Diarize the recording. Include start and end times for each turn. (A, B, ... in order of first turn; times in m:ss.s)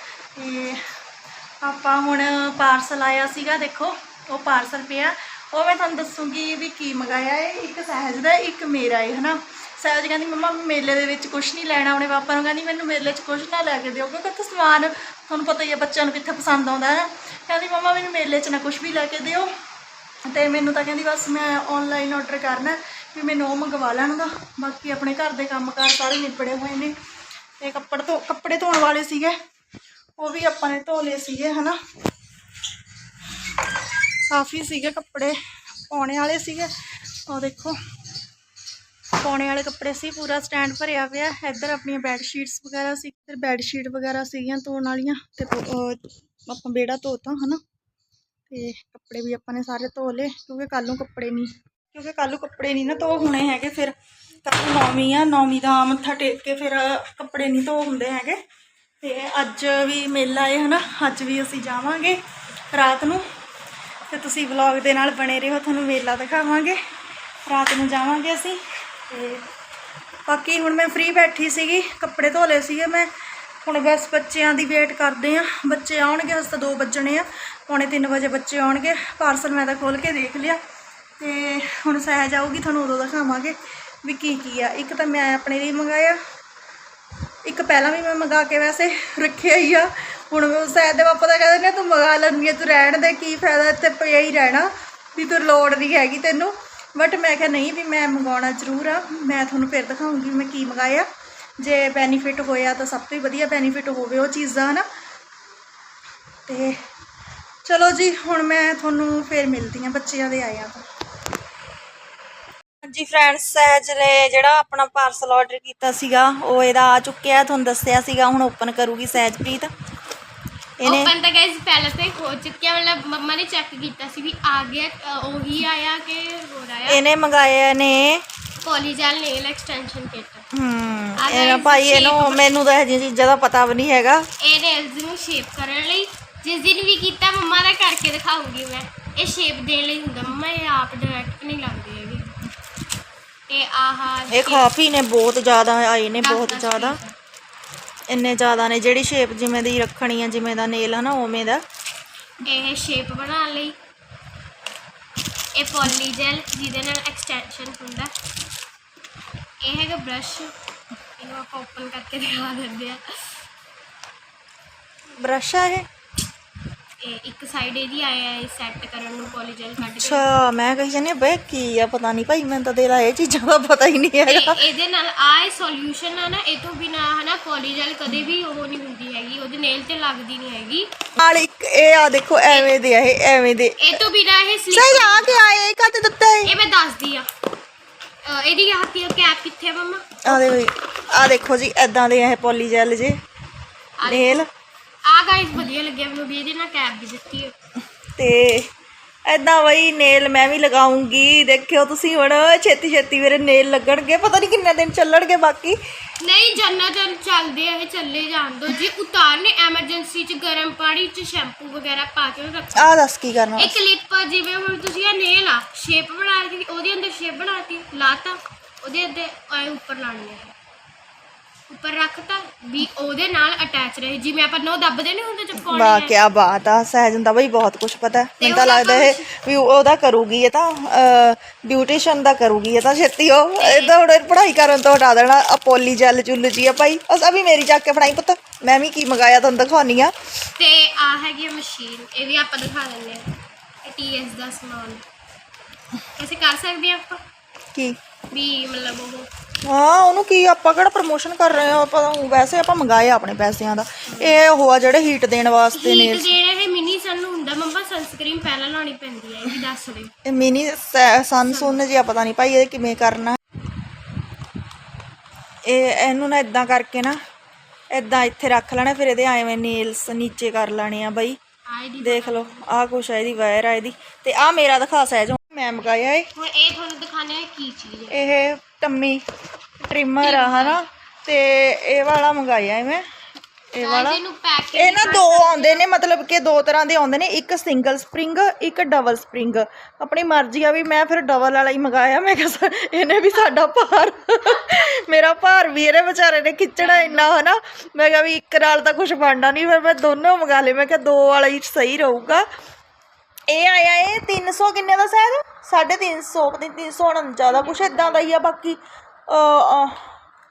0:00.3-0:00.8 A
0:01.6-0:19.5 A
0:20.2-0:26.9 A
0:27.6-0:29.4 A
0:30.2-0:31.8 A
0:34.3-0:35.4 A
0:35.9-0:36.7 A
0:37.3-0:37.8 A
0:39.2-0:47.6 A
0:48.5-0:58.4 A
0:59.0-1:02.2 A
1:02.7-1:03.2 A
1:04.1-1:06.8 A
1:07.4-1:09.4 A
1:10.3-1:13.1 A
1:13.6-1:20.6 A
1:21.2-1:26.2 A
1:27.4-1:41.1 A
1:41.6-1:44.8 A
1:46.5-1:46.8 A
1:47.6-1:50.8 A
1:52.8-1:59.7 A
2:00.8-2:01.1 A
2:00.8-2:07.0 B
2:06.9-2:08.2 A
2:08.6-2:10.4 B
2:10.5-2:14.2 A
2:11.2-2:12.6 B
2:14.4-2:22.4 B
2:23.5-2:24.7 B
2:24.3-2:27.0 A
2:26.2-2:27.1 B
2:28.1-2:31.6 A
2:32.4-2:33.7 B
2:35.6-2:38.1 B
2:39.6-2:40.5 B
2:41.2-2:43.0 B
2:45.2-2:45.8 A
2:47.0-2:50.3 B
2:49.8-2:54.6 A
2:54.2-3:00.9 B
3:01.2-3:04.0 A
3:02.4-3:02.7 B
3:03.8-3:05.4 B
3:04.7-3:06.5 A
3:06.4-3:07.3 B
3:08.2-3:10.6 B
3:10.2-3:13.2 A
3:14.0-3:14.4 B
3:14.1-3:14.5 A
3:15.1-3:17.5 B
3:18.2-3:18.6 A
3:19.3-3:25.8 A
3:26.2-3:32.9 B
3:32.8-3:33.7 A
3:33.6-3:40.5 B
3:41.7-3:46.2 B
3:45.7-4:00.1 A
3:48.4-3:49.3 B
3:53.6-3:53.9 B
4:00.6-4:03.3 B
4:03.8-4:05.0 B
4:06.2-4:07.2 B
4:08.3-4:09.3 B
4:09.6-4:16.3 A
4:14.1-4:14.4 B
4:15.7-4:20.1 B
4:20.2-4:23.4 A
4:21.4-4:21.8 B
4:25.6-4:27.2 A
4:27.9-4:31.4 A
4:31.7-4:32.6 B
4:32.0-4:36.3 A
4:36.4-4:38.1 B
4:38.1-4:39.2 A
4:39.8-4:43.0 A
4:40.2-4:40.8 B
4:43.7-4:44.2 A
4:43.8-4:45.8 B
4:44.7-5:02.4 A
4:56.8-4:57.3 B
5:03.5-5:10.0 A
5:07.4-5:08.2 B